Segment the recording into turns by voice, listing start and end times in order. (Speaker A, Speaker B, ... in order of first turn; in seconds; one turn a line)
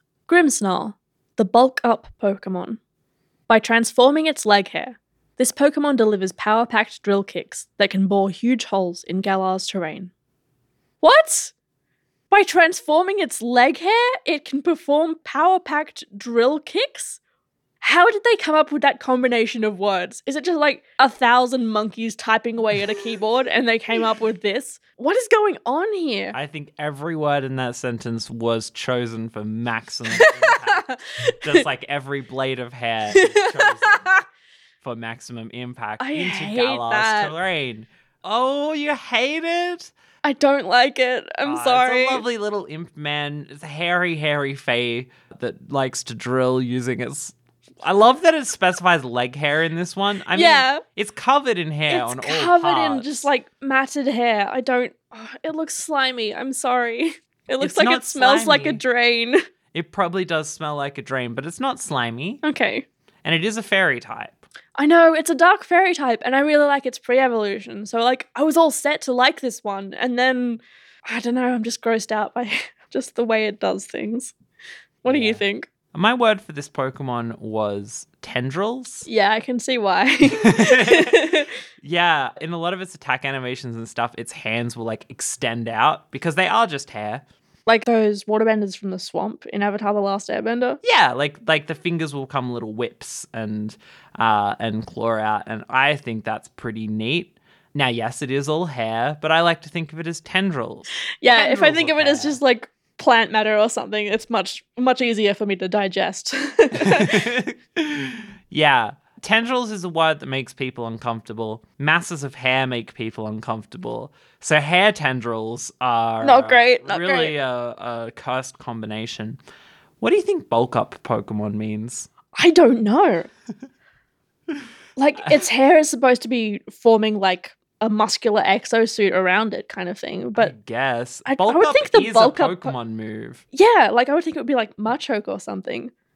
Speaker A: 0.3-2.8
Speaker A: 3.5-10.1
Speaker A: 11.0-11.5
Speaker A: 12.3-17.2
Speaker A: 17.8-26.4
Speaker B: 26.3-30.9
Speaker A: 30.1-31.4
Speaker B: 31.4-34.1
Speaker A: 33.2-34.2
Speaker B: 34.8-39.9
Speaker A: 36.0-37.4
Speaker A: 40.2-42.2
Speaker B: 41.4-53.3
Speaker A: 50.3-50.8
Speaker A: 51.9-59.4
Speaker B: 57.6-58.8
Speaker B: 59.7-62.4
Speaker A: 62.4-62.9
Speaker B: 63.2-64.4
Speaker A: 64.8-74.3
Speaker A: 75.0-75.7
Speaker B: 75.1-75.4
Speaker B: 75.9-79.1
Speaker A: 79.1-81.5
Speaker B: 80.4-87.2
Speaker A: 87.7-90.8
Speaker B: 90.8-102.4
Speaker A: 101.2-107.2
Speaker B: 106.8-119.4
Speaker A: 116.2-117.3
Speaker B: 120.0-122.1
Speaker A: 122.4-123.3
Speaker A: 125.0-130.5
Speaker B: 130.3-133.4
Speaker A: 131.3-132.8
Speaker A: 133.5-135.9